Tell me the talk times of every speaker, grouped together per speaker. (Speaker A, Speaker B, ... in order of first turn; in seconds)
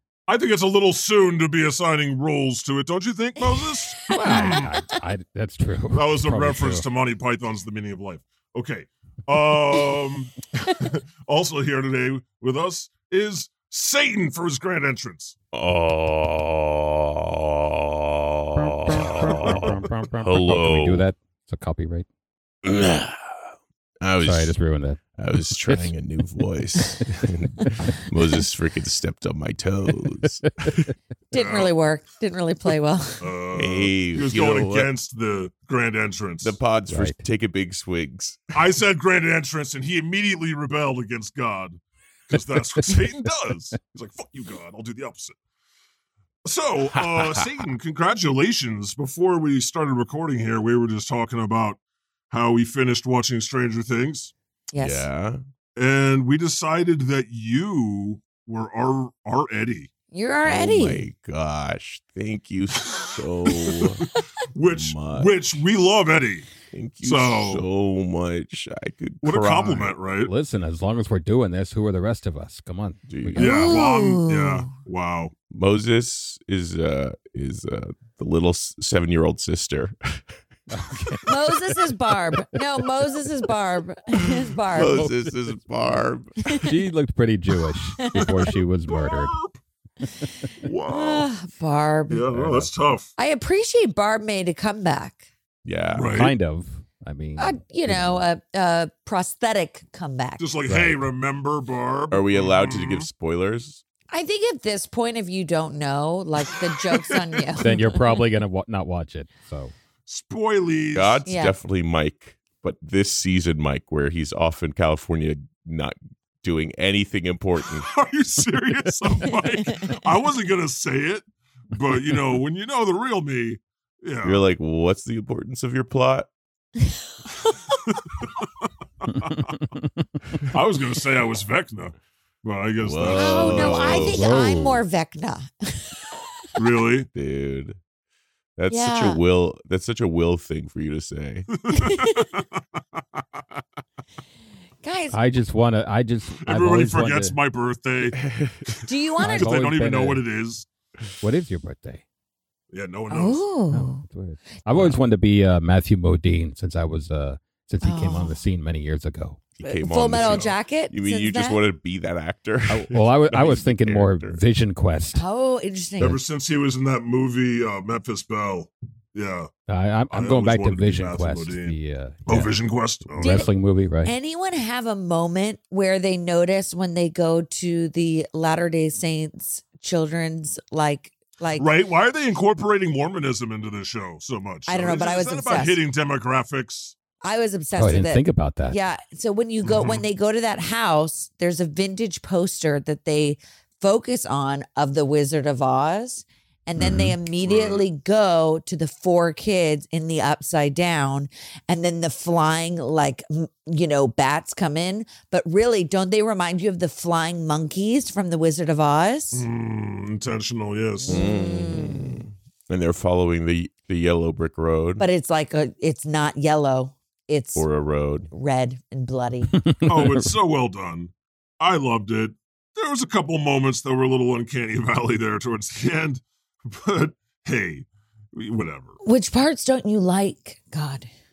Speaker A: 0.3-4.7, 5.9-15.3, 31.3-31.7, 33.2-36.6, 38.5-45.4, 46.4-51.8, 52.3-54.3, 55.8-59.9, 62.9-64.0, 64.5-66.5, 67.0-67.6, 69.2-70.3, 73.4-75.3, 88.9-89.5, 92.1-93.1, 95.9-96.3, 100.4-103.1, 110.1-111.2, 117.9-124.4, 127.9-128.5, 129.0-129.6, 130.5-134.0, 136.6-137.1, 141.6-143.6, 146.4-150.7, 152.7-153.4, 160.1-160.5, 166.0-169.5, 170.1-173.5, 181.6-186.9, 189.6-190.0, 196.8-197.8, 209.3-211.2, 219.8-228.9
Speaker B: 3.4-4.9, 31.3-33.3, 54.7-55.1, 60.1-61.0, 73.4-74.7, 81.2-85.1, 88.0-88.4, 90.9-92.2, 93.2-95.2, 97.4-100.4, 104.1-108.2, 111.2-111.5, 119.2-120.0, 133.1-136.4, 138.7-139.2, 141.7-142.3, 144.8-145.2, 148.8-149.5, 153.1-154.0, 157.8-158.4, 159.6-161.6, 165.1-166.2, 173.2-173.5, 174.0-181.7, 184.7-185.8, 187.2-209.4, 211.0-212.2, 215.0-217.7, 218.3-219.5, 229.0-231.1
Speaker C: 4.1-6.8, 18.6-22.1, 24.2-25.0, 25.6-25.9, 36.9-37.2, 70.2-73.7, 80.7-81.2, 82.3-82.6, 84.8-85.3, 86.6-89.4, 90.2-90.5, 92.3-92.7, 96.1-98.2, 100.7-101.0, 107.6-109.7, 129.2-130.0, 134.0-134.8, 145.1-147.3, 149.2-150.2, 151.2-152.0, 153.7-159.4, 162.7-165.2, 169.7-172.5, 173.1-174.1, 187.8-188.8, 219.5-220.3
Speaker D: 15.5-21.1, 22.6-23.3, 24.0-24.6, 25.2-30.9, 33.5-34.9, 36.4-38.4, 47.0-47.4, 54.8-55.4, 60.5-64.0, 64.7-65.6, 66.7-69.9, 73.1-73.5, 75.5-80.2, 84.7-86.4, 90.6-91.3, 95.6-96.1, 102.1-103.8, 110.9-117.9, 124.2-126.3, 132.8-134.2, 137.1-137.8, 138.6-141.5, 148.2-148.6, 159.6-164.4, 211.1-215.0, 217.5-218.3